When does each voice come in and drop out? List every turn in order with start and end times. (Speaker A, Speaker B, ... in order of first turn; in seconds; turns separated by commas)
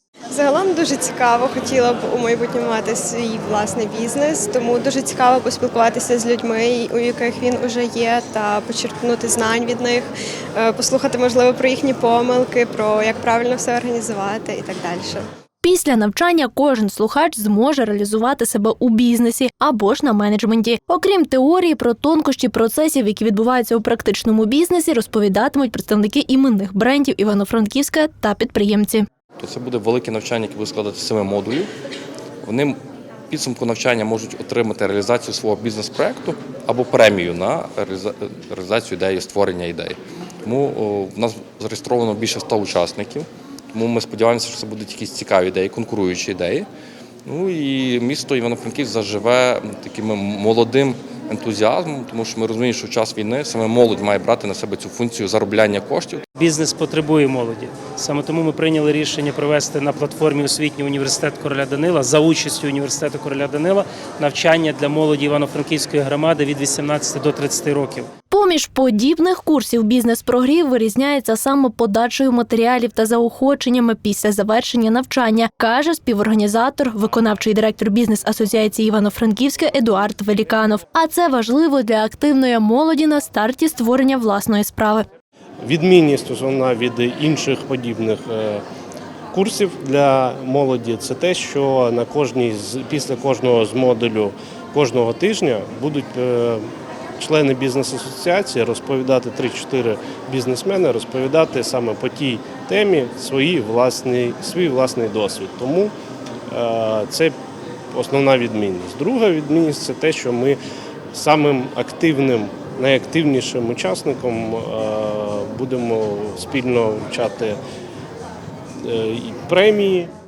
Speaker A: 0.3-15.2, Speaker B: 15.6-29.1, Speaker C: 29.4-31.7, Speaker C: 32.4-32.8, Speaker C: 33.3-46.7, Speaker C: 47.3-56.2, Speaker D: 56.4-68.1, Speaker B: 68.3-85.0, Speaker E: 85.6-88.6, Speaker E: 89.3-96.7, Speaker E: 97.2-105.9, Speaker E: 106.5-107.3, Speaker E: 107.9-110.6, Speaker E: 111.1-117.6, Speaker E: 118.8-120.1